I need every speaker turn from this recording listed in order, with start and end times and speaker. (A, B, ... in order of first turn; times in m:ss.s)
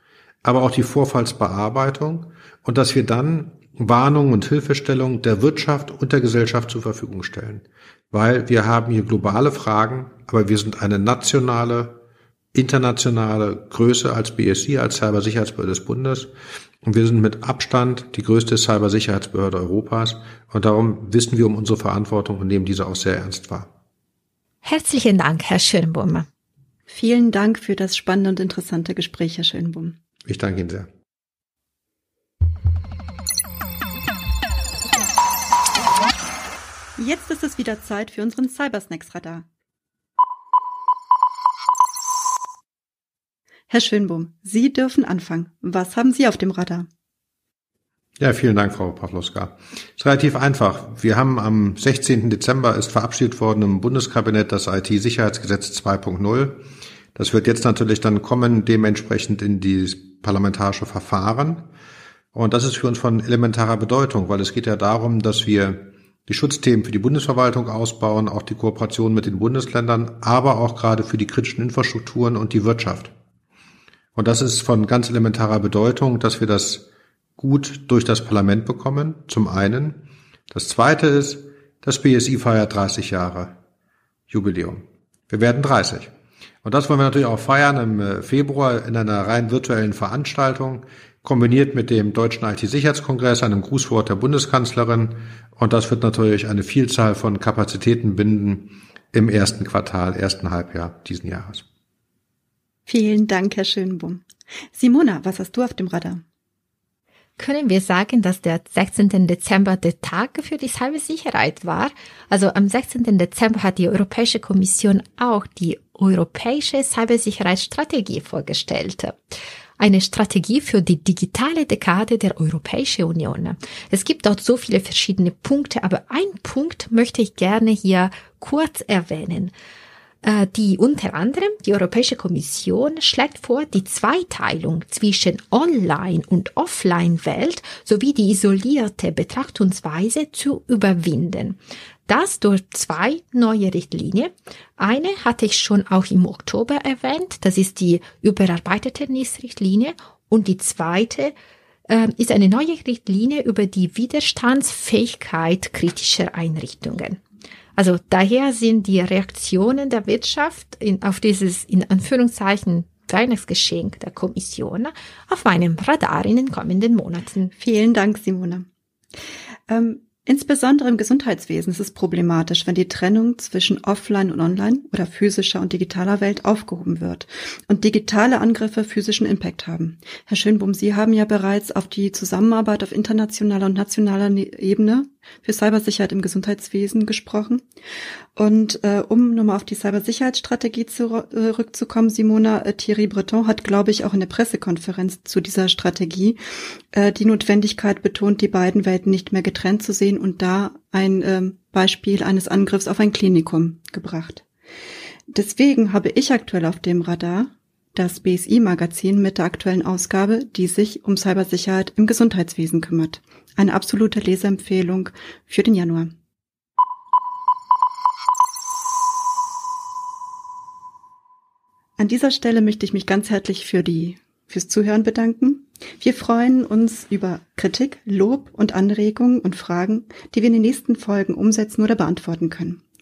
0:00.4-0:12.0 A
0:12.5-0:16.3 A
0:16.8-0:23.7 A
0:24.6-0:26.3 B
0:26.9-0:30.0 C
0:30.2-0:30.9 A
0:37.0-0:39.4 C
0:43.7-0:46.9 C
0:48.2-0:56.6 A
0:57.1-1:01.7 A
1:02.3-1:13.1 A
1:14.2-1:16.8 A
1:17.4-1:23.6 A
1:24.3-1:26.1 A
1:26.6-1:41.6 A
1:42.8-1:46.2 C
1:47.4-1:59.2 B
1:59.8-2:09.5 B
2:10.2-2:31.3 B
2:31.9-2:37.2 B
2:37.8-2:47.5 B
2:47.6-2:48.7 C
2:49.7-3:07.6 C
3:08.3-3:16.4 C
3:16.9-3:24.4 C
3:25.3-3:36.1 C
3:42.0-3:52.8 C